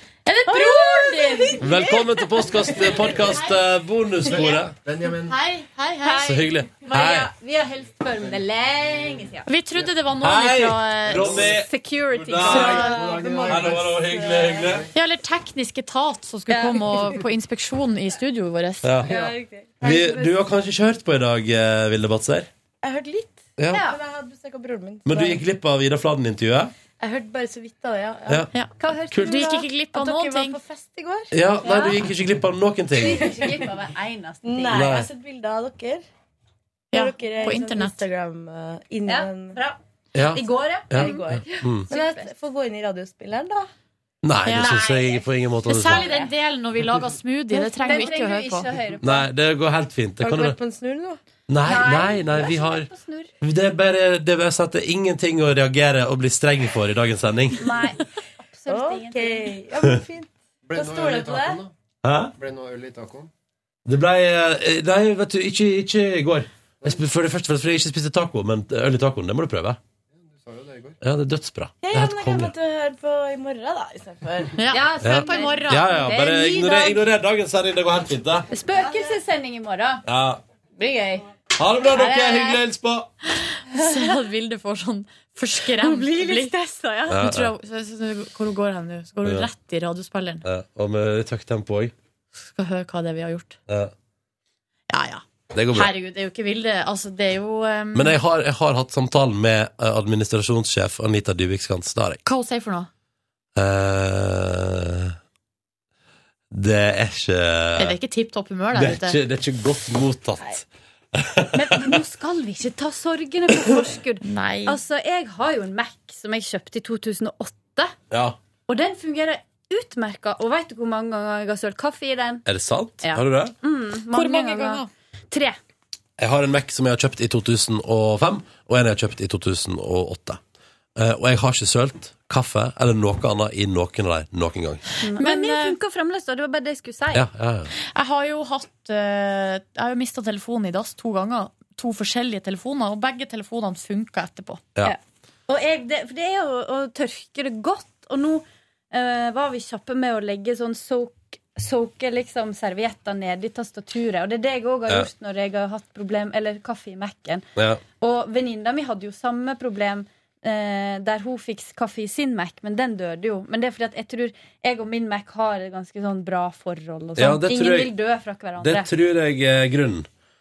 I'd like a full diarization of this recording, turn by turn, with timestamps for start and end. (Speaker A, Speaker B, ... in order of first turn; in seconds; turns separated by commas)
Speaker A: 0.3-1.6, Speaker B: 0.5-3.0, Speaker C: 1.6-4.7, Speaker A: 3.1-3.5, Speaker D: 4.3-5.4, Speaker A: 5.3-6.4, Speaker B: 6.0-9.5, Speaker C: 6.2-7.3, Speaker A: 9.5-11.4, Speaker C: 10.2-14.9, Speaker D: 11.2-11.6, Speaker B: 11.4-14.4, Speaker A: 12.4-13.1, Speaker E: 12.7-14.7, Speaker D: 12.8-13.8, Speaker A: 14.9-19.0, Speaker B: 16.5-17.1, Speaker C: 18.8-19.2, Speaker E: 19.1-20.3, Speaker B: 19.1-19.4, Speaker C: 19.8-22.5, Speaker E: 22.8-25.4, Speaker B: 22.9-24.0, Speaker C: 23.6-23.8, Speaker C: 25.1-26.7, Speaker E: 27.0-28.5, Speaker A: 28.5-30.6, Speaker B: 28.8-30.6, Speaker E: 29.9-31.9, Speaker C: 31.3-33.3, Speaker B: 31.6-32.1, Speaker B: 32.9-35.0, Speaker E: 33.1-33.7, Speaker E: 34.4-36.0, Speaker C: 34.7-35.1, Speaker A: 36.9-38.0, Speaker E: 36.9-39.6, Speaker B: 39.0-42.3, Speaker C: 40.1-41.9, Speaker E: 41.0-43.7, Speaker C: 44.2-46.1, Speaker A: 44.4-45.0, Speaker B: 44.5-46.3, Speaker A: 45.6-48.7, Speaker E: 47.5-48.2, Speaker B: 47.8-49.3, Speaker C: 49.0-50.6, Speaker E: 50.2-51.2, Speaker C: 51.5-52.9, Speaker B: 51.6-53.3, Speaker C: 53.4-57.7, Speaker B: 57.6-59.6, Speaker E: 58.7-61.6, Speaker D: 60.7-61.7, Speaker C: 62.0-62.3, Speaker D: 62.4-63.3, Speaker C: 63.9-69.8, Speaker D: 70.2-71.0, Speaker C: 71.0-72.5, Speaker E: 71.8-74.6, Speaker A: 74.6-76.0, Speaker B: 74.6-77.0, Speaker C: 75.0-78.5, Speaker B: 78.5-80.0, Speaker E: 78.7-79.2, Speaker C: 80.0-80.4, Speaker B: 80.8-81.2, Speaker C: 81.5-83.1, Speaker B: 81.9-82.6, Speaker A: 83.4-86.5, Speaker B: 83.7-84.2, Speaker B: 85.8-87.2, Speaker A: 87.1-90.4, Speaker C: 87.1-87.5, Speaker C: 90.4-91.9, Speaker A: 92.5-93.6, Speaker C: 93.7-93.9, Speaker A: 94.9-98.2, Speaker C: 95.5-95.9, Speaker C: 97.9-102.2, Speaker A: 102.2-102.9, Speaker C: 103.5-105.2, Speaker C: 106.5-108.0, Speaker A: 107.8-109.2, Speaker C: 108.7-111.9, Speaker B: 111.5-117.9, Speaker A: 114.2-114.8, Speaker C: 118.1-118.4, Speaker B: 118.7-122.4, Speaker C: 122.4-123.5, Speaker B: 123.0-125.6, Speaker A: 124.1-124.9, Speaker C: 126.2-130.4, Speaker C: 130.9-134.8, Speaker B: 135.0-137.3, Speaker A: 135.1-135.8, Speaker C: 137.1-137.7, Speaker A: 137.7-144.6, Speaker B: 144.8-157.4, Speaker C: 157.6-157.8, Speaker B: 158.0-168.9, Speaker C: 167.2-167.9, Speaker C: 168.6-170.1